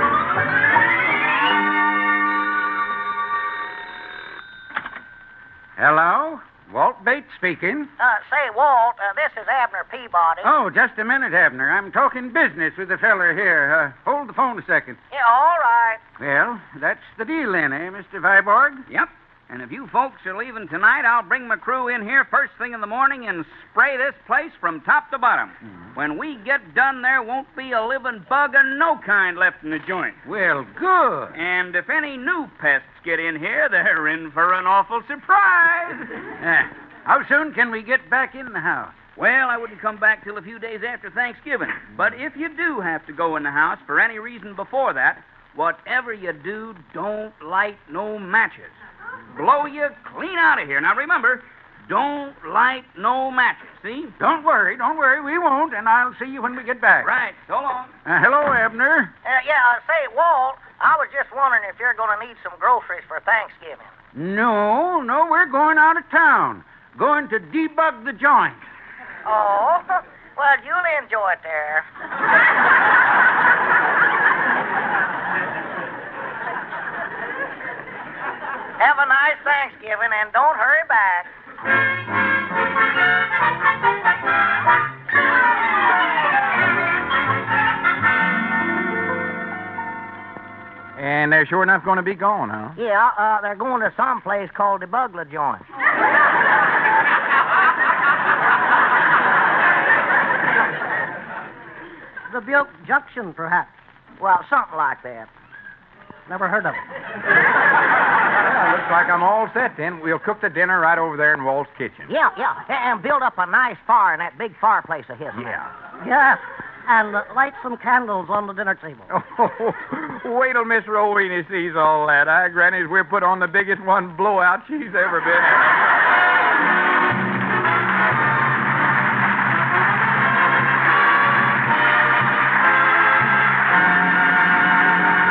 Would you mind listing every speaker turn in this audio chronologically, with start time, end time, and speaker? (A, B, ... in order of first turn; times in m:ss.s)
0:05.8-0:07.9 A
0:08.0-0:10.5 B
0:10.4-0:15.0 A
0:15.1-0:16.0 B
0:16.2-0:18.8 A
0:18.9-0:30.2 C
0:30.2-0:31.4 A
0:31.3-0:36.2 C
0:36.4-0:39.0 A
0:39.2-0:48.8 C
0:49.3-0:54.1 C
0:54.2-0:57.1 A
0:57.0-0:57.9 C
0:58.0-0:59.1 A
0:59.2-1:03.9 B
1:04.2-1:08.6 A
1:09.2-1:11.9 B
1:18.8-1:21.3 B
1:31.0-1:32.8 D
1:32.8-1:35.6 B
1:42.3-1:43.7 E
1:44.2-1:45.3 B
1:46.3-1:46.8 E
1:48.4-1:52.1 D
1:52.1-1:55.6 B
1:55.4-1:55.7 D
1:56.0-1:59.1 E
1:59.1-2:05.7 D